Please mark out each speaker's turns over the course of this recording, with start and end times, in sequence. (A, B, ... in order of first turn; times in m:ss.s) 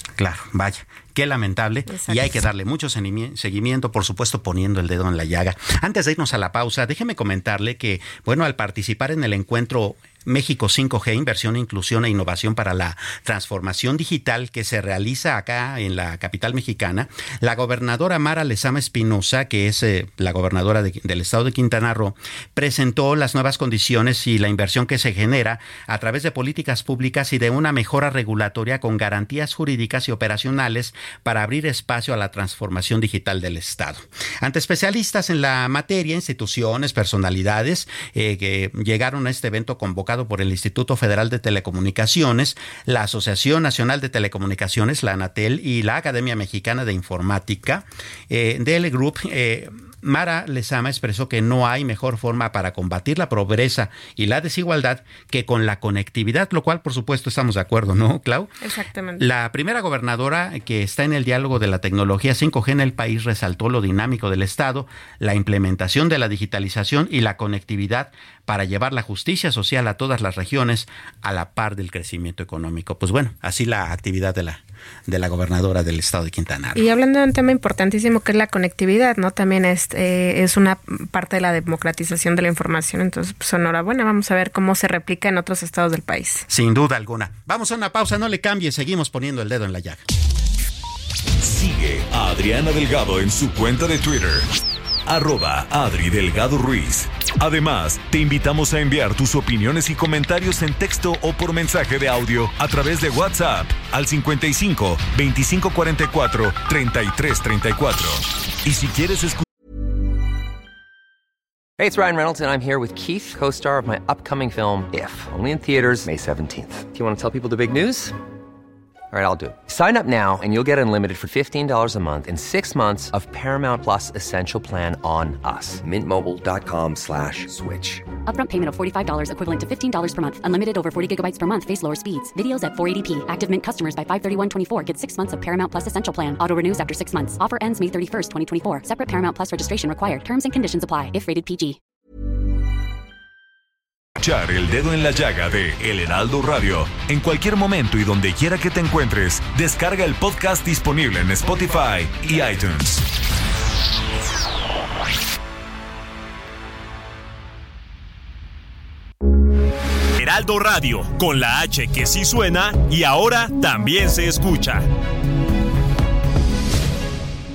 0:00.2-0:58.5 A
0:01.9-0:02.2 B
0:58.6-0:59.2 B
0:59.2-1:16.8 A
1:16.7-1:26.4 B
1:26.5-1:30.0 A
1:31.4-1:34.5 C
1:35.0-1:49.4 C
1:51.8-1:58.2 D
1:59.1-2:08.0 D
2:08.2-2:21.8 E
2:24.2-2:33.0 C
2:40.2-2:44.9 F